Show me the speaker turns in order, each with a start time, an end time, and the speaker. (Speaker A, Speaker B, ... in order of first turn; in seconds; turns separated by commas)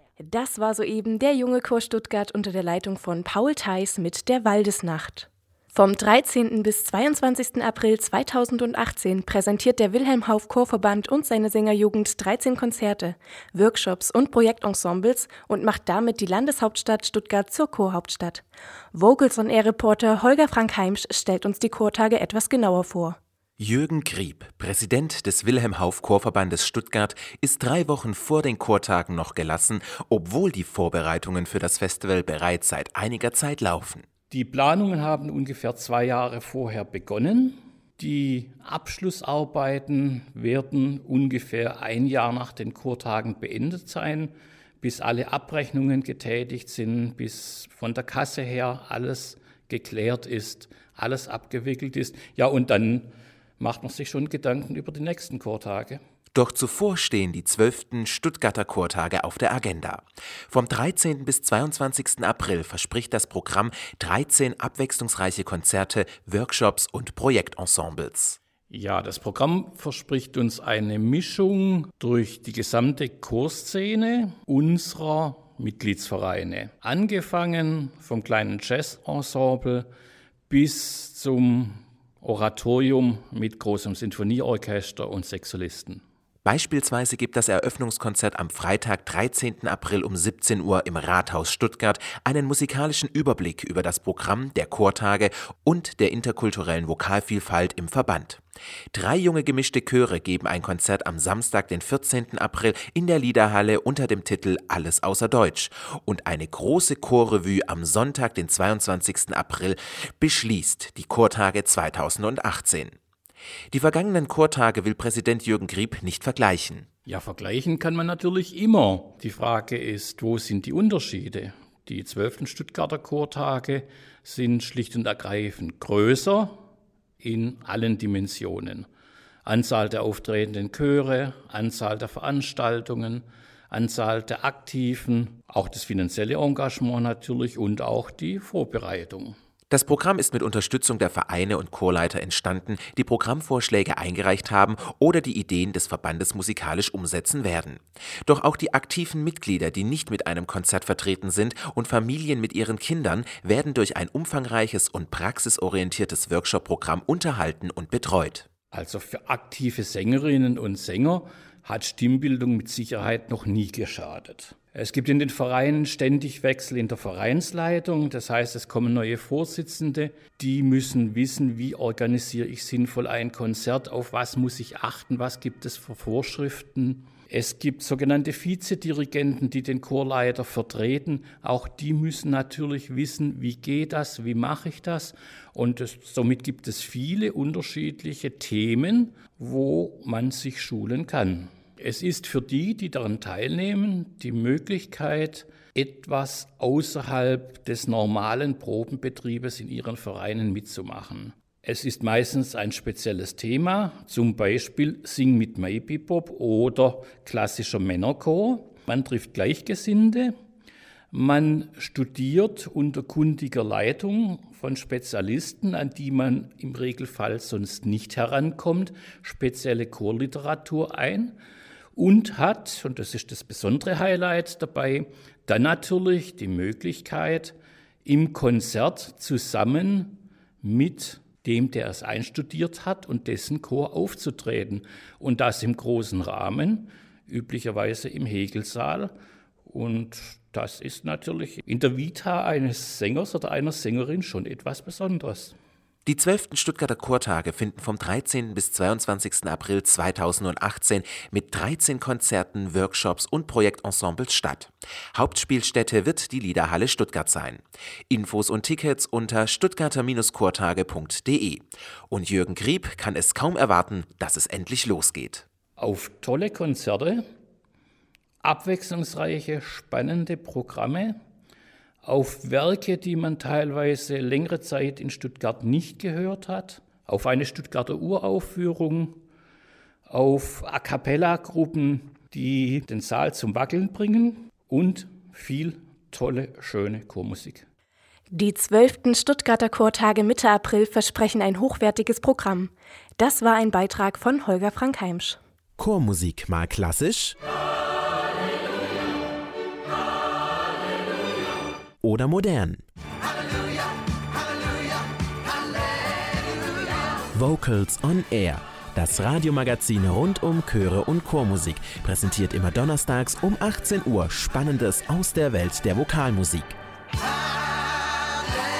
Speaker A: 0.2-23.2, Speaker B: 23.6-34.0, Speaker C: 34.3-56.0, Speaker B: 56.3-68.4, Speaker C: 68.7-79.9, Speaker C: 80.5-86.0, Speaker B: 86.4-98.4, Speaker B: 98.9-113.0, Speaker B: 113.7-116.9, Speaker C: 117.1-126.6, Speaker C: 127.2-128.9, Speaker C: 129.4-139.4, Speaker B: 139.7-158.5, Speaker C: 158.7-210.3, Speaker C: 211.1-221.4, Speaker C: 221.9-239.1, Speaker C: 239.7-245.6, Speaker B: 246.1-265.4, Speaker C: 265.8-267.2, Speaker C: 268.4-271.2, Speaker C: 272.0-279.2, Speaker C: 280.1-287.7, Speaker A: 288.3-295.4, Speaker B: 295.8-297.4, Speaker B: 302.0-302.8, Speaker B: 307.4-316.8